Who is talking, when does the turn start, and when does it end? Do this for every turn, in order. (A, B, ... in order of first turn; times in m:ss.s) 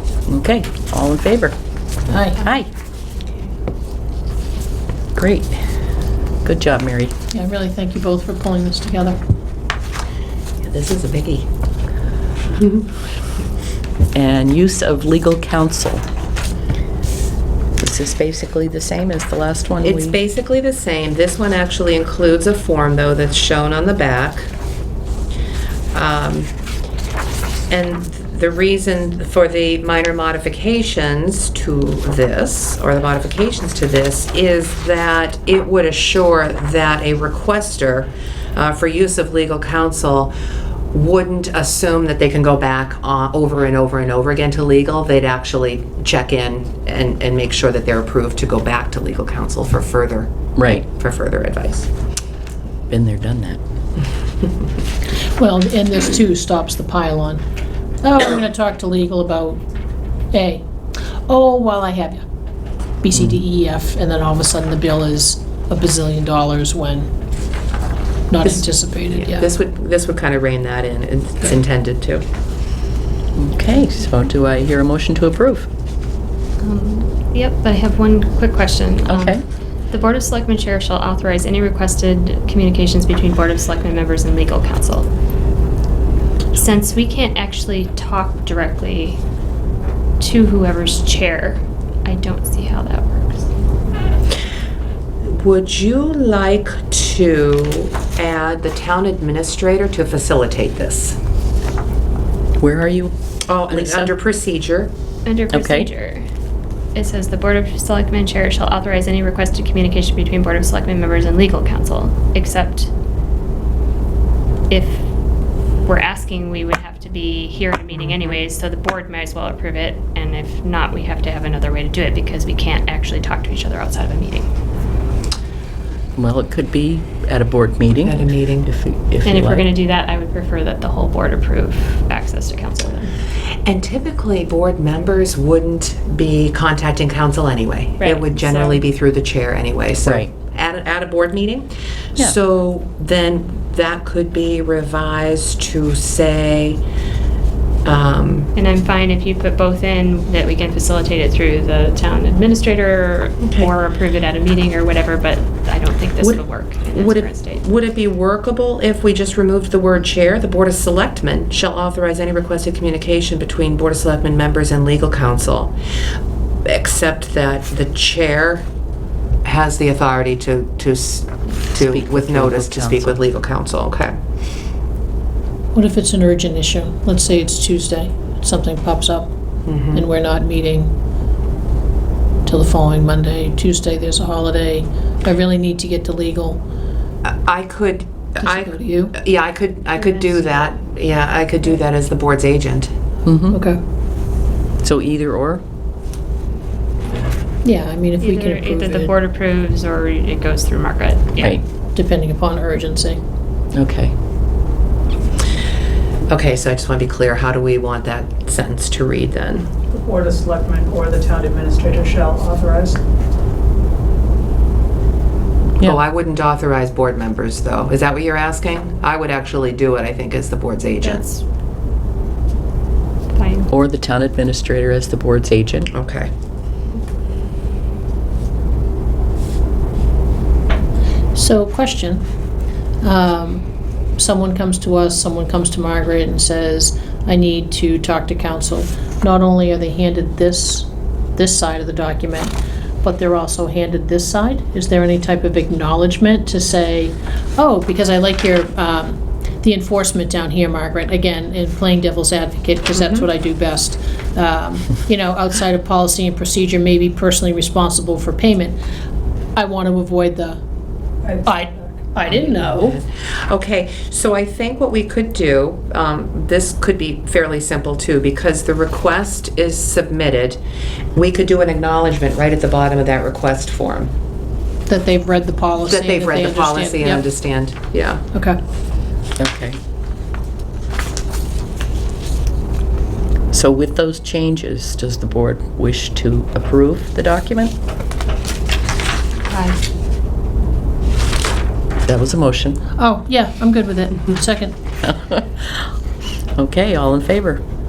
0:00.3-0:01.6 A
0:02.1-0:02.5 B
0:02.4-0:02.7 A
0:05.2-0:05.6 A
0:06.4-0:07.1 A
0:07.3-0:09.2 B
0:10.6-0:11.5 C
0:12.6-0:12.9 C
0:14.1-0:16.0 A
0:17.8-0:20.2 A
0:19.8-0:24.5 C
0:25.9-0:26.5 C
0:27.7-0:40.3 C
0:40.9-0:51.9 C
0:50.6-0:50.8 A
0:52.9-0:53.6 A
0:55.4-0:57.4 B
0:58.0-0:59.6 B
1:00.3-1:00.6 B
1:01.3-1:02.2 B
1:03.0-1:07.1 B
1:08.3-1:09.5 B
1:08.4-1:12.2 C
1:13.4-1:15.7 A
1:16.6-1:25.1 D
1:19.1-1:19.4 A
1:26.5-1:29.2 D
1:30.2-1:33.5 D
1:35.2-1:41.2 C
1:42.6-1:43.1 A
1:43.5-1:44.9 C
1:43.7-1:44.1 A
1:45.2-1:46.2 D
1:45.5-1:45.9 A
1:46.9-1:52.9 D
1:54.7-1:55.1 D
1:55.8-2:04.5 D
2:06.2-2:09.7 A
2:08.0-2:08.7 C
2:09.2-2:13.1 D
2:13.7-2:26.8 C
2:18.0-2:18.8 D
2:20.0-2:20.3 A
2:27.8-2:28.5 C
2:28.5-2:37.6 D
2:33.4-2:33.7 C
2:36.9-2:45.7 C
2:46.6-2:48.7 C
2:49.4-2:54.2 C
2:51.8-2:53.2 A
2:55.7-2:59.3 B
2:59.7-3:00.0 C
2:59.9-3:00.9 B
3:02.4-3:06.6 B
3:07.2-3:12.9 C
3:08.4-3:09.2 B
3:10.0-3:10.7 D
3:13.2-3:13.6 A
3:13.5-3:13.8 B
3:14.8-3:15.6 A
3:17.6-3:19.1 B
3:18.2-3:21.6 D
3:21.9-3:23.2 B
3:23.7-3:24.1 A
3:26.3-3:29.7 C
3:29.9-3:33.0 E
3:35.8-3:41.2 C
3:41.0-3:41.4 D
3:43.3-3:43.7 D
3:43.7-3:45.9 A
3:45.9-3:46.3 C
3:51.3-3:52.2 B
3:53.0-3:53.6 B
3:54.2-4:18.8 B
4:12.9-4:13.3 C
4:19.6-4:20.6 B
4:21.2-4:21.8 E
4:21.4-4:23.0 B
4:22.3-4:30.6 C
4:31.1-4:34.1 C
4:34.9-4:37.3 B
4:35.8-4:38.2 C
4:39.4-4:39.8 A
4:43.5-4:47.8 A
4:49.5-4:49.8 D
4:52.1-4:52.8 A
4:53.0-4:54.8 B
4:55.0-4:55.9 A
4:56.6-4:57.6 A